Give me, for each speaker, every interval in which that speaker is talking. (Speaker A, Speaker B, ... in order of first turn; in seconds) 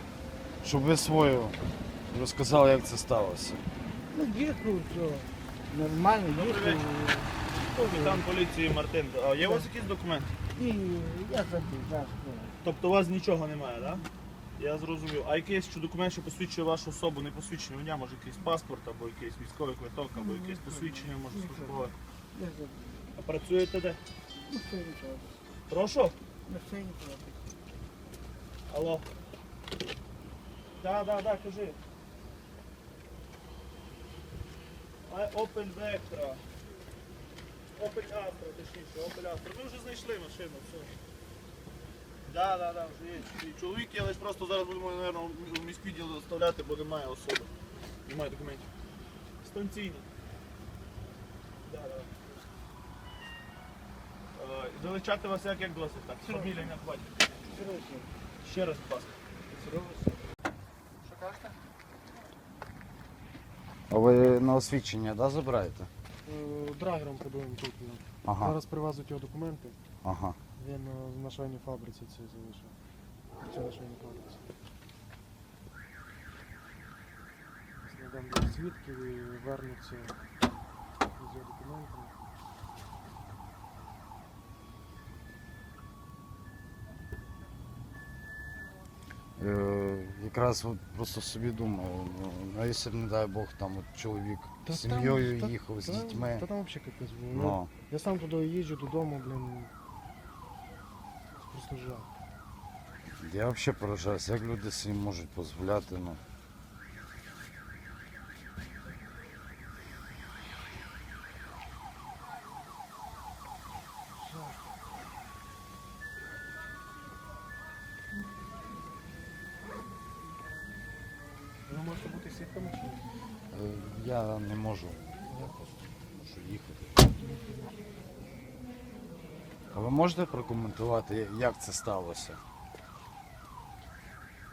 Speaker A: 0.6-1.6, 2.1-3.6, 63.9-65.9, 68.2-68.6, 70.0-70.4, 89.4-96.5, 97.3-97.7, 103.2-106.2, 123.5-125.2, 126.2-127.0, 129.7-132.4
Speaker B: 4.1-8.3, 9.4-9.7, 10.6-12.6, 20.1-23.1, 24.5-25.3, 26.5-27.4, 56.2-56.8, 57.5-58.1, 59.6-60.2
Speaker C: 6.3-6.9, 7.5-10.3, 12.6-14.1, 14.6-21.9, 23.2-24.0, 25.7-26.1, 28.7-29.1, 30.8-31.8, 35.1-36.4, 37.8-40.9, 42.3-47.5, 48.1-48.7, 49.4-50.1, 51.6-52.3, 54.4-57.1, 58.4-59.2
Speaker D: 61.0-61.6, 66.2-69.8, 70.6-72.8, 73.4-74.4, 77.8-80.2, 81.2-82.2, 94.7-99.7, 101.4-102.1, 114.2-114.6, 121.7-123.0, 125.3-125.6, 127.2-127.7